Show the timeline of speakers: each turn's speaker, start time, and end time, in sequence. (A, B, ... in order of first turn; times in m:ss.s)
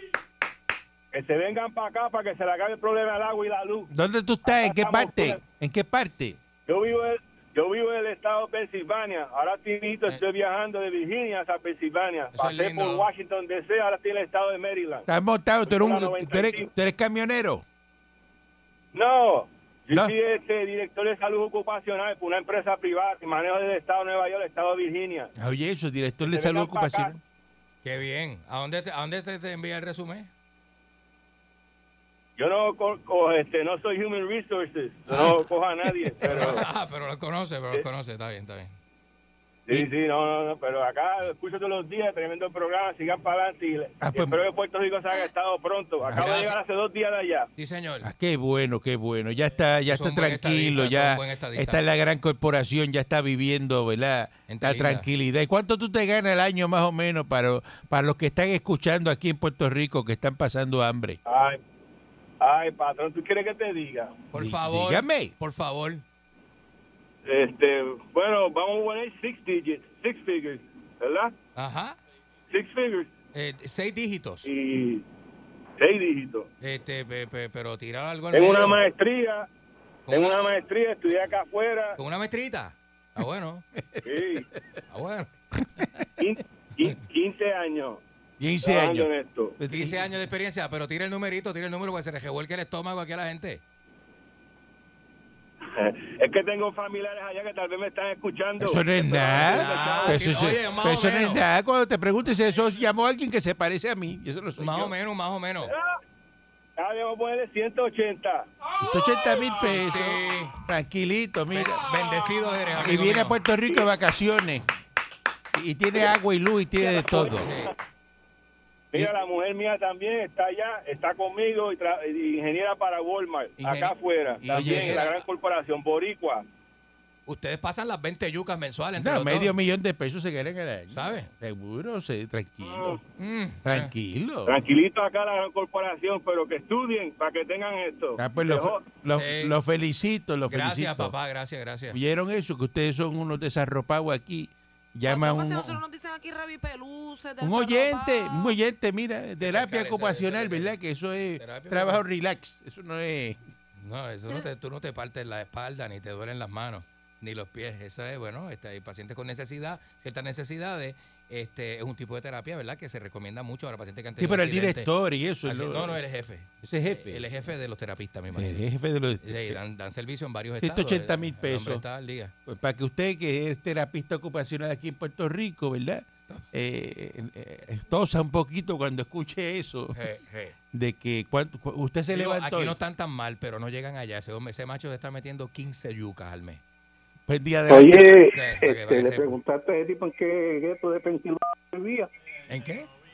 0:01.1-0:03.9 A
0:03.9-0:06.4 B
0:04.4-0:05.4 A
0:06.7-0:15.1 A
0:12.3-0:13.1 C
0:15.1-0:17.6 B
0:15.6-0:16.7 A
0:18.9-0:25.3 A
0:25.4-0:27.2 B
0:26.2-0:27.2 A
0:27.8-0:30.3 C
0:32.4-0:36.6 A
0:35.1-0:35.5 C
0:36.2-0:38.7 C
0:39.7-0:47.5 A
0:44.0-0:44.4 B
0:46.1-0:46.6 C
0:47.6-0:48.1 C
0:48.0-1:01.2 B
0:49.9-0:51.8 C
0:54.5-0:55.1 C
1:01.2-1:01.6 A
1:02.4-1:04.1 A
1:04.3-1:06.0 C
1:04.3-1:05.3 B
1:07.2-1:11.3 A
1:11.5-1:12.0 C
1:12.5-1:13.1 A
1:13.3-1:14.5 C
1:14.4-1:15.0 A
1:15.8-1:16.5 A
1:16.6-1:18.8 C
1:18.3-1:19.5 A
1:20.1-1:20.4 C
1:20.1-1:22.0 A
1:22.0-1:23.6 C
1:23.8-1:24.0 B
1:24.0-1:24.5 A
1:24.9-1:25.3 C
1:26.2-1:28.0 A
1:28.4-1:30.0 B
1:28.6-1:29.6 A
1:29.7-1:33.6 C
1:35.7-1:40.4 A
1:38.6-1:44.9 B
1:39.4-1:41.4 C
1:44.6-1:45.7 C
1:45.7-1:46.0 A
1:46.8-1:48.5 A
1:48.8-1:51.9 B
1:49.6-1:50.5 C
1:51.5-1:53.4 C
1:52.7-1:54.6 B
1:55.5-1:57.5 B
1:57.3-1:57.7 C
1:58.9-2:06.4 A
2:03.6-2:05.3 C
2:04.4-2:05.0 B
2:07.3-2:09.5 C
2:09.0-2:13.0 B
2:10.9-2:11.3 C
2:12.6-2:13.0 A
2:13.2-2:13.9 C
2:13.6-2:14.5 B
2:14.5-2:18.8 A
2:18.2-2:21.1 B
2:19.1-2:19.6 C
2:20.5-2:22.0 C
2:21.9-2:25.8 B
2:25.0-2:28.5 D
2:27.4-2:33.4 B
2:29.4-2:30.8 C
2:31.4-2:32.0 C
2:33.8-2:44.9 C
2:44.2-2:46.0 B
2:45.4-2:48.6 C
2:46.6-2:47.2 B
2:48.3-2:49.6 B
2:49.2-2:52.3 C
2:50.6-2:51.8 B
2:52.4-3:00.0 B
2:59.9-3:00.5 C
3:00.7-3:02.8 B
3:02.1-3:06.6 C
3:07.3-3:08.3 B
3:07.7-3:12.1 E
3:08.3-3:09.4 C
3:12.5-3:12.9 C